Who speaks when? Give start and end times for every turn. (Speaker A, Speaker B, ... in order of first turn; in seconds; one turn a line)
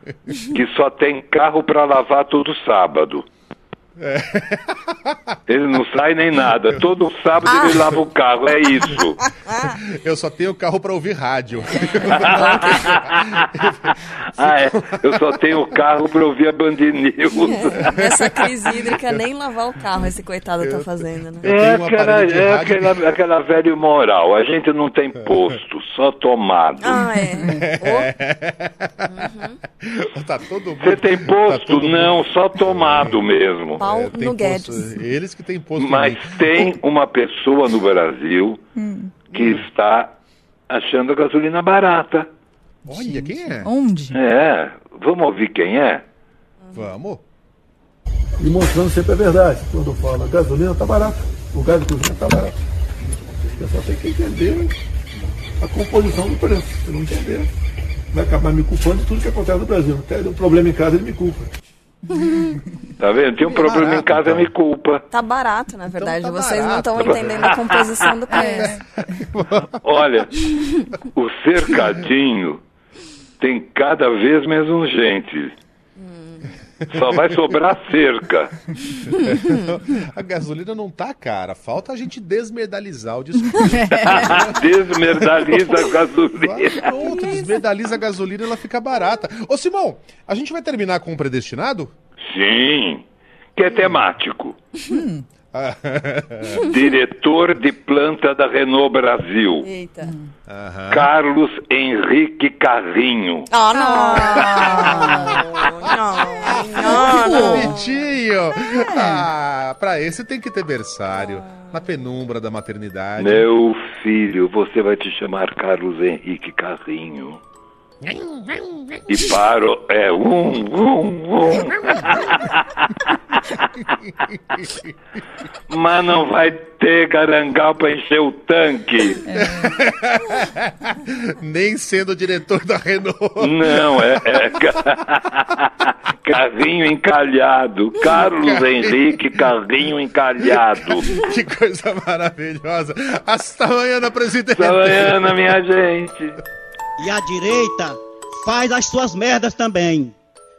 Speaker A: 0.5-3.2
Speaker B: 4.0-5.3
Speaker A: 5.5-9.2
Speaker B: 6.6-6.9
Speaker B: 7.4-7.9
Speaker B: 9.6-15.2
Speaker A: 12.2-13.3
Speaker C: 12.2-12.8
Speaker A: 14.4-17.9
Speaker C: 17.4-21.5
Speaker B: 17.9-18.6
Speaker B: 20.6-23.0
Speaker A: 21.4-27.1
Speaker C: 26.8-28.1
Speaker D: 27.3-27.7
Speaker B: 27.4-29.1
Speaker C: 29.1-29.6
Speaker B: 29.8-33.2
Speaker A: 30.8-33.8
Speaker C: 33.8-34.9
Speaker B: 33.8-36.7
Speaker A: 35.8-38.6
Speaker D: 38.8-39.1
Speaker A: 39.3-40.1
Speaker B: 39.3-39.6
Speaker A: 40.7-42.3
Speaker B: 42.9-43.7
Speaker D: 42.9-44.2
Speaker A: 44.1-46.0
Speaker B: 46.7-47.2
Speaker E: 48.4-52.5
Speaker E: 53.6-54.7
Speaker E: 55.6-57.5
Speaker E: 58.1-61.5
Speaker A: 63.0-65.0
Speaker B: 63.5-64.5
Speaker C: 65.1-68.8
Speaker B: 65.9-70.0
Speaker A: 67.1-67.5
Speaker D: 68.2-68.8
Speaker A: 69.8-70.3
Speaker A: 71.1-72.6
Speaker A: 73.4-75.5
Speaker C: 76.0-76.4
Speaker A: 76.9-78.5
Speaker B: 79.0-91.9
Speaker D: 83.8-84.2
Speaker A: 84.0-86.9
Speaker A: 92.3-93.0
Speaker A: 93.6-94.6
Speaker D: 94.9-95.2
Speaker B: 95.5-96.6
Speaker A: 96.6-99.7
Speaker C: 99.6-100.1
Speaker B: 100.5-101.1
Speaker A: 100.9-103.5
Speaker C: 103.5-108.0
Speaker D: 103.8-105.3
Speaker B: 104.4-105.4
Speaker B: 106.4-113.5
Speaker D: 106.8-107.7
Speaker D: 108.8-109.3
Speaker A: 113.2-117.4
Speaker B: 118.0-119.0
Speaker A: 119.1-123.6
Speaker B: 123.8-124.9
Speaker A: 125.7-129.2
Speaker D: 129.2-129.8
Speaker B: 129.3-134.6
Speaker A: 133.4-141.2
Speaker B: 138.0-139.1
Speaker B: 140.4-145.4
Speaker A: 144.6-146.4
Speaker F: 147.0-150.1